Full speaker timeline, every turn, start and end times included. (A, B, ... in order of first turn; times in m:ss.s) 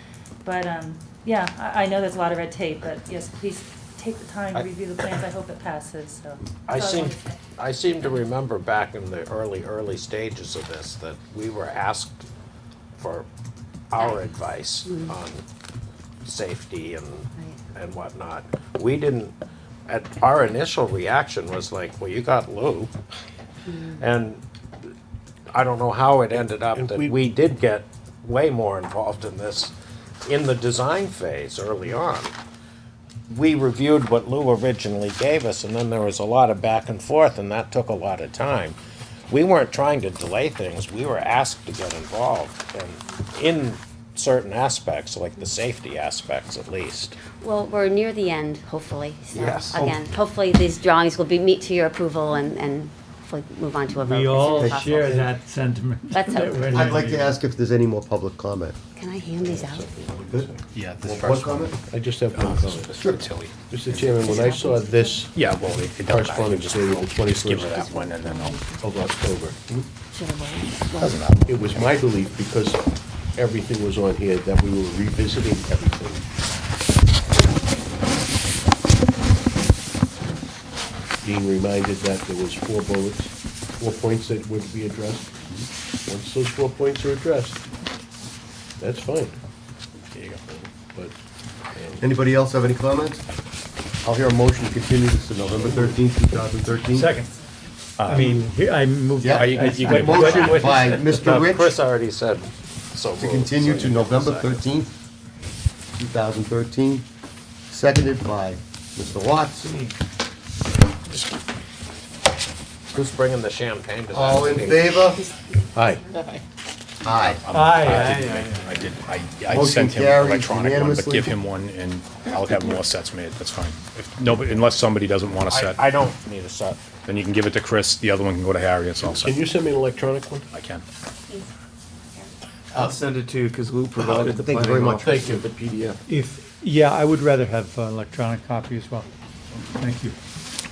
0:00.4-0:07.3 A
0:06.7-0:12.2 B
0:13.0-0:13.3 B
0:13.9-0:15.4 B
0:14.0-0:15.2 C
0:16.2-0:19.4 B
0:19.9-0:22.9 B
0:23.7-0:24.0 C
0:24.0-0:24.4 B
0:25.5-0:32.3 B
0:26.7-0:27.3 D
0:33.3-0:38.8 B
0:39.3-0:47.2 B
0:47.3-0:55.3 C
0:49.3-0:49.8 B
0:49.7-0:50.0 E
0:53.9-0:57.4 F
0:54.6-0:54.9 E
0:56.1-0:56.9 C
0:56.7-0:58.8 E
0:59.0-0:59.8 C
0:59.4-1:00.7 D
1:00.7-1:04.2 G
1:01.0-1:01.7 E
1:01.2-1:03.0 D
1:02.9-1:03.3 E
1:03.6-1:05.4 D
1:04.2-1:05.2 C
1:05.3-1:08.6 G
1:06.0-1:08.0 D
1:07.6-1:08.9 C
1:08.8-1:09.9 D
1:10.0-1:11.2 C
1:11.0-1:11.4 G
1:11.5-1:12.8 D
1:13.4-1:16.3 D
1:21.2-1:25.5 D
1:26.1-1:27.6 D
1:28.8-1:29.4 D
1:30.1-1:30.4 G
1:30.5-1:31.1 D
1:31.7-1:32.0 D
1:32.0-1:33.2 E
1:34.0-1:37.1 E
1:36.9-1:37.4 F
1:38.0-1:38.3 G
1:38.0-1:41.0 F
1:39.2-1:41.7 E
1:39.3-1:40.5 G
1:40.3-1:44.8 B
1:43.2-1:44.9 E
1:46.0-1:47.0 E
1:47.7-1:49.7 E
1:49.6-1:50.0 F
1:52.9-1:55.0 B
1:54.1-1:55.2 E
1:55.2-1:56.2 C
1:55.7-1:56.1 D
1:56.1-1:56.4 B
1:57.0-1:57.4 E
1:57.2-2:05.8 G
1:57.5-1:58.8 F
1:59.5-2:01.4 E
2:05.5-2:06.8 B
2:07.1-2:09.4 G
2:09.1-2:10.5 D
2:10.5-2:10.8 G
2:11.3-2:11.5 C
2:12.8-2:16.0 H
2:14.0-2:15.1 E
2:15.0-2:15.6 D
2:16.1-2:19.1 F
2:19.8-2:20.2 F